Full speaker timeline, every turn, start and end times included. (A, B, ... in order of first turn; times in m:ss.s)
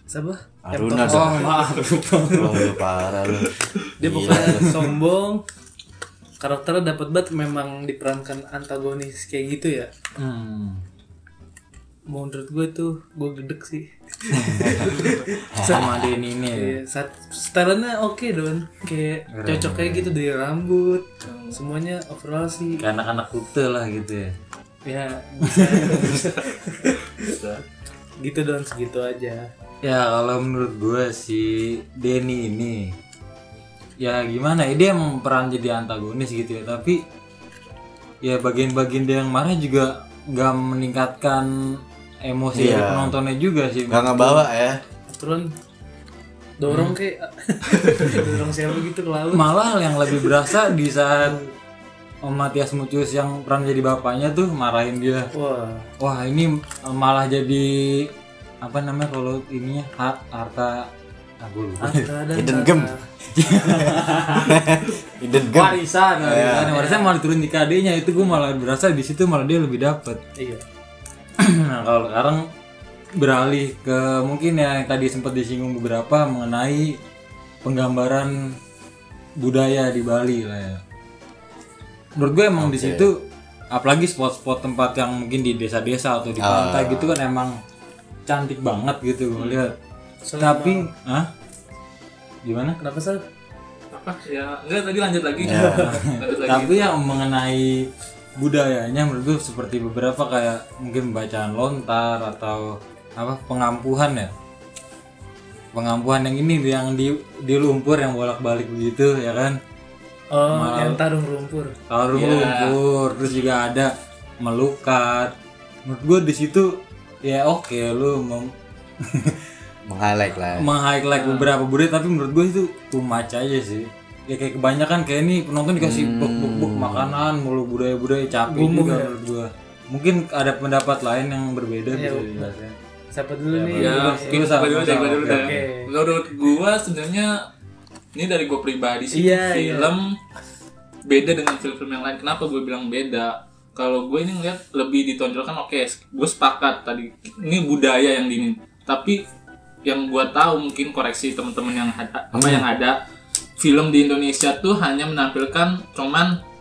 0:00.1-0:01.8 A
0:00.7-0:01.5 B
0:01.0-0:02.8 C
0:02.3-0:04.9 B
0:04.0-0:05.4 A
0:04.3-0:04.6 C
0:06.4-0:09.9 A
0:10.2-0:10.8 C
0:12.1-0:22.8 A
0:14.4-0:15.0 B
0:15.5-0:16.1 B
0:15.6-0:16.8 C
0:19.3-0:20.1 C
0:21.2-0:21.6 D
0:22.8-0:24.3 C
0:24.8-0:27.3 A
0:25.4-0:26.2 C
0:27.2-0:27.6 D
0:28.2-0:29.5 A
0:29.8-0:33.0 C
0:34.0-0:37.0 C
0:38.2-0:44.4 C
0:42.6-0:43.2 B
0:43.9-0:44.8 B
0:45.1-0:45.5 A
0:46.6-0:49.5 A
0:46.7-0:47.0 C
0:49.3-0:51.4 C
0:50.1-0:50.5 A
0:51.2-0:51.5 A
0:52.2-0:55.3 C
0:55.3-0:55.9 A
0:56.0-0:58.1 C
0:58.6-1:02.0 C
1:01.8-1:03.0 A
1:02.3-1:02.9 B
1:03.3-1:04.7 C
1:03.4-1:06.8 B
1:05.4-1:10.2 C
1:06.7-1:07.1 A
1:10.4-1:10.6 A
1:11.4-1:12.5 C
1:13.2-1:17.0 C
1:17.6-1:18.6 C
1:19.4-1:20.8 C
1:22.2-1:27.6 C
1:22.6-1:23.1 B
1:26.4-1:27.2 B
1:28.3-1:29.8 C
1:30.2-1:30.9 A
1:30.4-1:31.3 C
1:32.4-1:32.8 C
1:32.8-1:33.2 A
1:33.9-1:37.0 D
1:35.4-1:36.0 B
1:35.5-1:35.9 A
1:35.6-1:44.3 C
1:45.7-1:49.6 C
1:50.3-1:51.7 A
1:50.5-1:51.0 C
1:51.9-1:55.3 C
1:52.1-1:52.8 D
1:55.8-1:59.4 C
1:59.9-2:00.7 B
2:00.6-2:12.8 C
2:01.2-2:01.5 D
2:05.8-2:07.2 B
2:08.5-2:09.2 A
2:11.9-2:12.5 A
2:13.1-2:14.6 A
2:13.5-2:15.6 C
2:13.7-2:17.4 D
2:15.2-2:15.9 A
2:18.2-2:20.2 D
2:19.1-2:19.9 A
2:21.1-2:29.2 D
2:29.8-2:33.0 D
2:32.3-2:32.6 B
2:33.6-2:36.4 D